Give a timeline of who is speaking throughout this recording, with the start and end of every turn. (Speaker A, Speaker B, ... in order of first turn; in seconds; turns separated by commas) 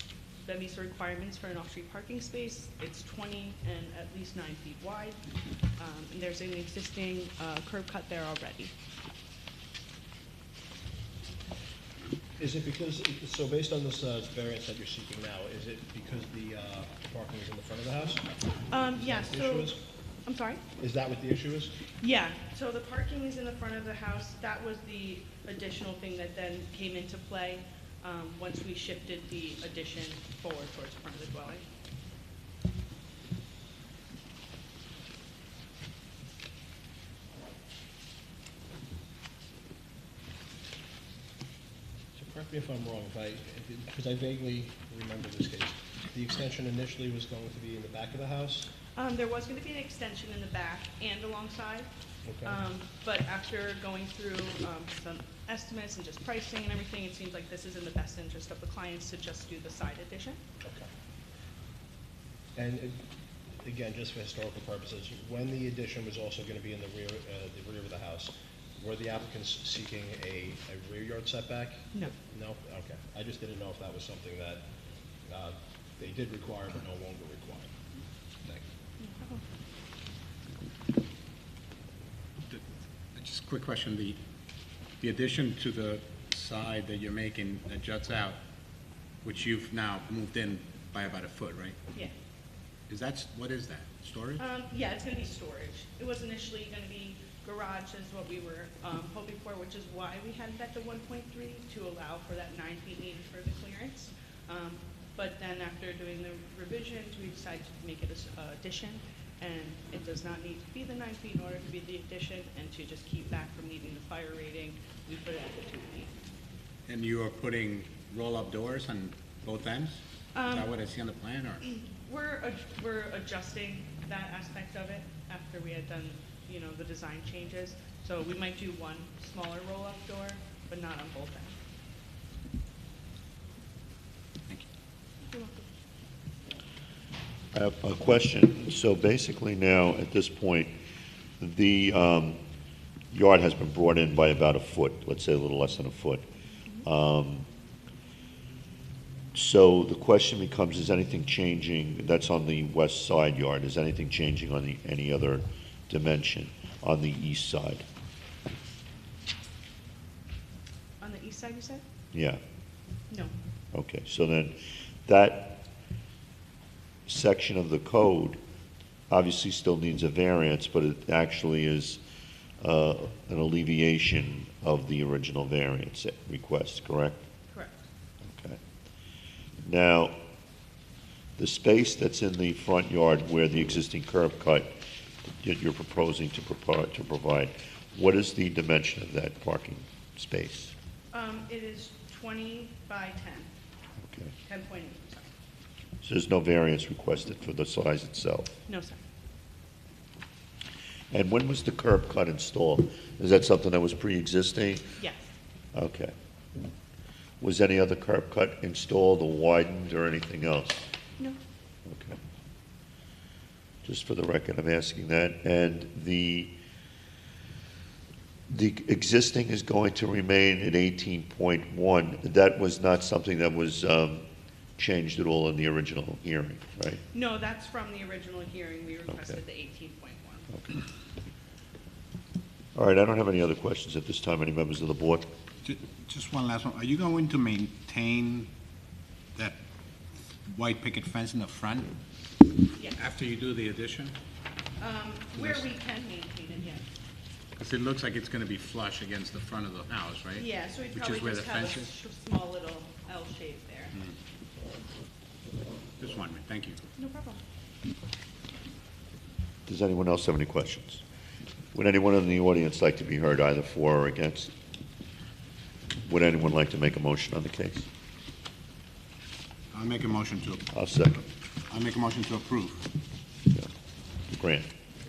Speaker A: 0.4-5.2, Speaker A: 5.8-8.7, Speaker B: 12.4-18.3, Speaker A: 18.7-20.6, Speaker B: 18.9-19.8, Speaker B: 20.8-21.7, Speaker A: 22.0-31.6, Speaker B: 42.2-48.7, Speaker A: 49.0-51.9, Speaker B: 52.2-52.6, Speaker A: 52.5-60.4, Speaker B: 60.6-60.9, Speaker B: 62.5-63.1, Speaker B: 63.6-74.6, Speaker B: 75.3-77.7, Speaker A: 79.0-79.4, Speaker C: 83.1-84.2, Speaker C: 85.0-88.4, Speaker C: 89.2-91.8, Speaker C: 92.9-94.4, Speaker A: 94.4-116.1, Speaker C: 116.9-121.7, Speaker A: 120.3-120.7, Speaker A: 121.7-131.6, Speaker A: 135.2-135.7, Speaker D: 137.5-140.7, Speaker D: 141.4-142.4, Speaker D: 143.1-146.2, Speaker D: 146.8-147.5, Speaker D: 149.3-157.8, Speaker A: 161.0-161.8, Speaker D: 162.1-162.4, Speaker D: 163.7-165.6, Speaker D: 167.1-168.4, Speaker D: 169.1-172.0, Speaker D: 172.6-177.2, Speaker A: 177.5-177.9, Speaker D: 178.2-178.6, Speaker D: 179.7-180.2, Speaker D: 181.4-184.7, Speaker D: 185.3-190.7, Speaker A: 191.1-193.5, Speaker D: 194.1-194.3, Speaker A: 194.5-195.3, Speaker D: 196.0-198.6, Speaker A: 198.7-199.0, Speaker D: 201.1-204.8, Speaker A: 205.0-205.3, Speaker D: 205.7-206.1, Speaker D: 207.4-210.9, Speaker D: 211.8-212.2, Speaker D: 213.8-216.5, Speaker D: 218.5-224.2, Speaker D: 224.8-227.0, Speaker A: 227.1-230.5, Speaker D: 232.8-235.3, Speaker C: 235.6-238.5, Speaker C: 239.3-239.6, Speaker C: 240.5-242.0, Speaker C: 243.0-244.2, Speaker A: 244.8-246.8, Speaker C: 247.6-251.9, Speaker A: 250.4-253.9, Speaker C: 256.0-256.8, Speaker A: 257.0-257.4, Speaker D: 259.7-261.0, Speaker D: 261.7-264.5, Speaker D: 266.0-267.9, Speaker C: 269.7-270.7, Speaker D: 270.7-271.2, Speaker C: 271.7-272.9, Speaker D: 274.3-274.7